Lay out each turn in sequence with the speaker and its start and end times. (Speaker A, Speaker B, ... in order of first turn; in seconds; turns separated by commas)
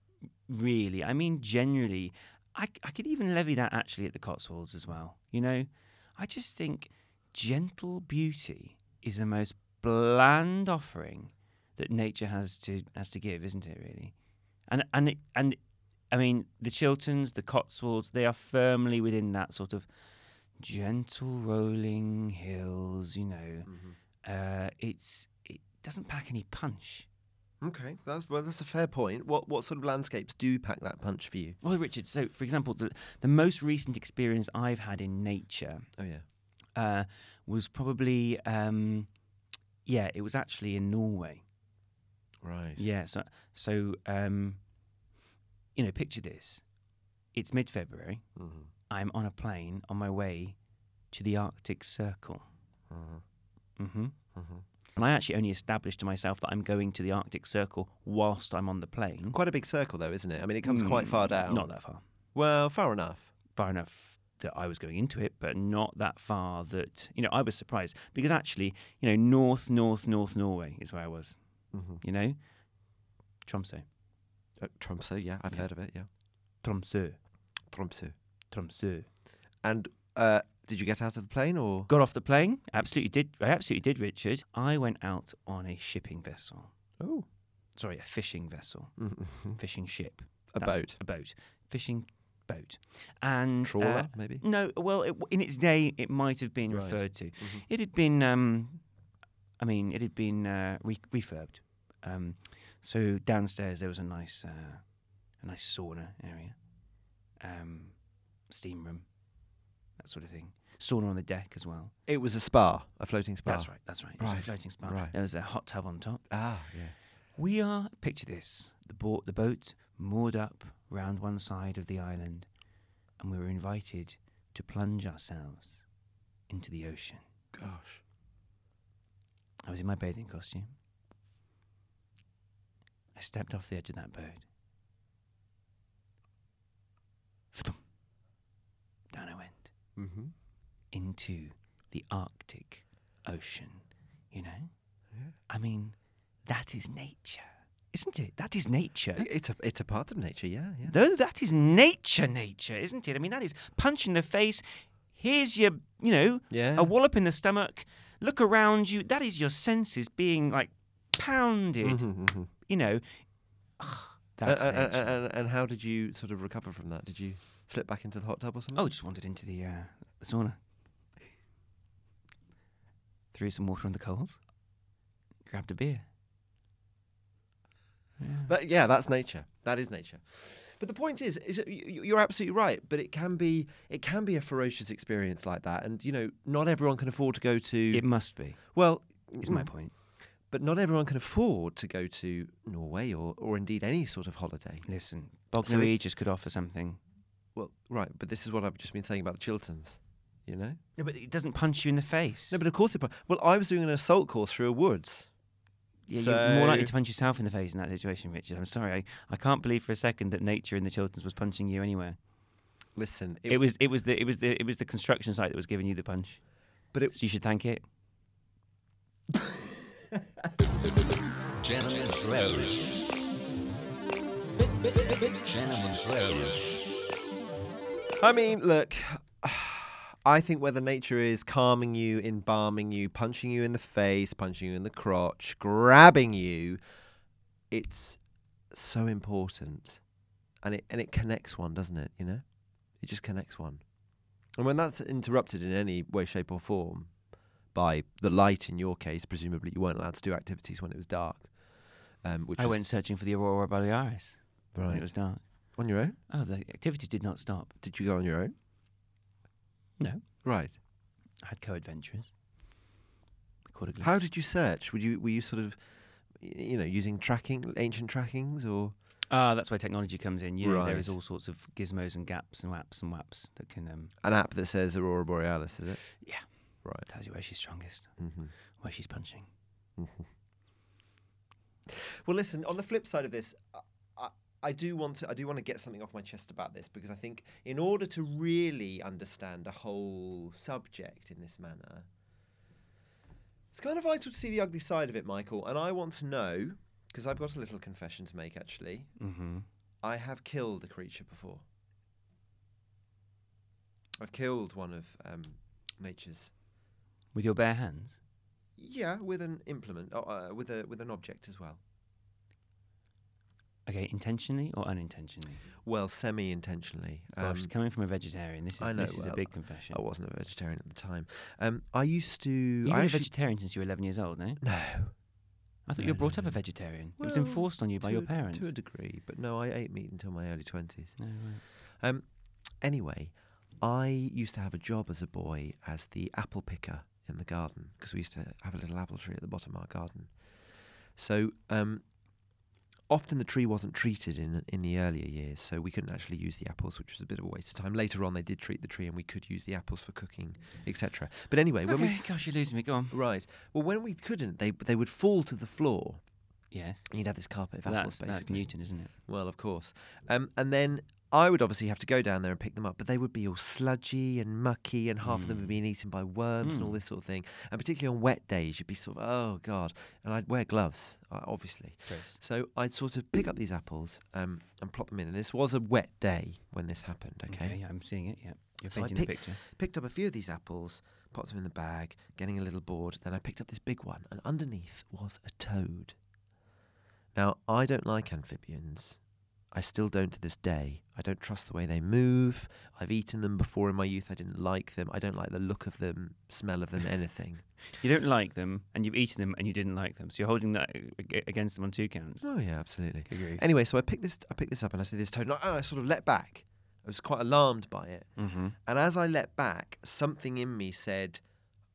Speaker A: 0.5-14.1, Speaker A: 14.7-15.6, Speaker A: 16.1-19.9, Speaker A: 20.6-23.7, Speaker B: 23.7-24.0, Speaker A: 24.2-27.1, Speaker B: 27.6-31.6, Speaker A: 31.6-35.9, Speaker B: 36.0-36.2, Speaker A: 36.7-39.1, Speaker A: 39.9-41.4, Speaker B: 42.4-42.9, Speaker A: 42.8-44.6, Speaker A: 45.8-46.6, Speaker A: 47.3-48.3, Speaker B: 48.4-48.7, Speaker A: 48.9-50.6, Speaker A: 51.1-52.5, Speaker B: 52.9-53.2, Speaker A: 53.8-54.2, Speaker B: 54.4-54.6, Speaker A: 55.0-59.4, Speaker B: 59.3-61.7, Speaker A: 60.6-62.0, Speaker B: 62.3-63.3, Speaker A: 63.5-71.4, Speaker B: 71.7-72.0, Speaker A: 72.0-72.4, Speaker A: 73.4-73.8, Speaker B: 74.6-76.1, Speaker A: 76.6-77.2, Speaker B: 77.7-78.2, Speaker A: 78.5-79.1, Speaker B: 79.6-81.9, Speaker A: 81.9-86.7, Speaker B: 87.0-87.3, Speaker A: 87.8-98.8, Speaker B: 89.0-89.6, Speaker B: 90.5-91.0, Speaker B: 93.6-94.4, Speaker B: 96.7-97.7, Speaker A: 99.6-104.9, Speaker A: 105.4-106.6, Speaker A: 107.4-109.1, Speaker A: 110.0-111.9, Speaker B: 112.1-115.2, Speaker A: 113.5-116.3, Speaker B: 116.3-117.0, Speaker A: 117.4-122.5, Speaker A: 123.2-125.9, Speaker A: 126.5-127.2, Speaker B: 127.5-128.0, Speaker A: 129.6-130.7, Speaker A: 133.2-134.4, Speaker A: 137.5-137.8, Speaker A: 139.1-139.7, Speaker B: 140.0-140.3, Speaker A: 140.9-144.7, Speaker A: 145.5-149.3, Speaker B: 149.2-150.9, Speaker A: 150.9-165.2, Speaker B: 156.5-156.9, Speaker B: 161.8-162.5, Speaker B: 164.4-168.9, Speaker A: 168.8-170.6, Speaker A: 173.3-174.4, Speaker A: 175.5-176.1, Speaker A: 178.2-178.5, Speaker B: 178.5-188.1, Speaker A: 187.9-188.6, Speaker B: 188.6-189.7, Speaker A: 189.4-189.9, Speaker B: 190.5-194.9, Speaker A: 194.8-197.0, Speaker B: 195.6-195.9, Speaker B: 197.6-200.8, Speaker A: 201.0-202.6, Speaker B: 202.5-205.3, Speaker A: 206.1-212.2, Speaker B: 206.1-206.9, Speaker B: 212.9-213.6, Speaker A: 213.5-216.5, Speaker A: 217.1-217.8, Speaker C: 221.6-222.8, Speaker C: 225.3-226.7, Speaker B: 228.2-236.8, Speaker B: 237.7-238.2, Speaker B: 238.7-240.0, Speaker B: 240.6-242.5, Speaker B: 243.0-243.8, Speaker B: 244.6-247.2, Speaker B: 247.7-251.6, Speaker B: 252.1-252.8, Speaker A: 252.6-257.8, Speaker B: 254.7-256.2, Speaker B: 257.8-258.6, Speaker A: 260.0-260.3, Speaker B: 260.4-260.8, Speaker A: 261.4-262.3, Speaker A: 263.7-264.2, Speaker B: 264.0-268.9, Speaker A: 269.3-274.1, Speaker B: 270.6-271.2, Speaker B: 274.2-276.1, Speaker A: 276.1-276.5, Speaker A: 277.0-278.2, Speaker B: 278.2-278.5, Speaker A: 278.7-279.5, Speaker B: 280.0-280.3, Speaker B: 281.9-292.1, Speaker B: 293.7-299.1, Speaker A: 299.2-299.6, Speaker B: 300.0-301.6, Speaker B: 304.2-306.5, Speaker A: 307.3-308.2, Speaker B: 308.8-311.8, Speaker A: 313.9-315.6, Speaker B: 315.8-317.7, Speaker A: 317.4-320.0, Speaker B: 318.8-323.3, Speaker A: 322.8-324.6, Speaker B: 324.6-325.2, Speaker A: 325.9-328.7, Speaker B: 326.0-342.1, Speaker A: 331.2-331.6, Speaker B: 343.1-352.2, Speaker A: 351.9-353.2, Speaker B: 353.1-356.2, Speaker A: 356.7-357.1, Speaker B: 357.1-377.8, Speaker A: 357.9-359.1, Speaker A: 365.2-365.8, Speaker A: 366.6-367.0, Speaker A: 372.1-372.4, Speaker A: 377.5-379.6, Speaker B: 378.9-386.2, Speaker B: 387.4-397.6, Speaker A: 397.9-402.5, Speaker B: 402.4-411.4, Speaker A: 403.3-403.7, Speaker A: 408.4-408.8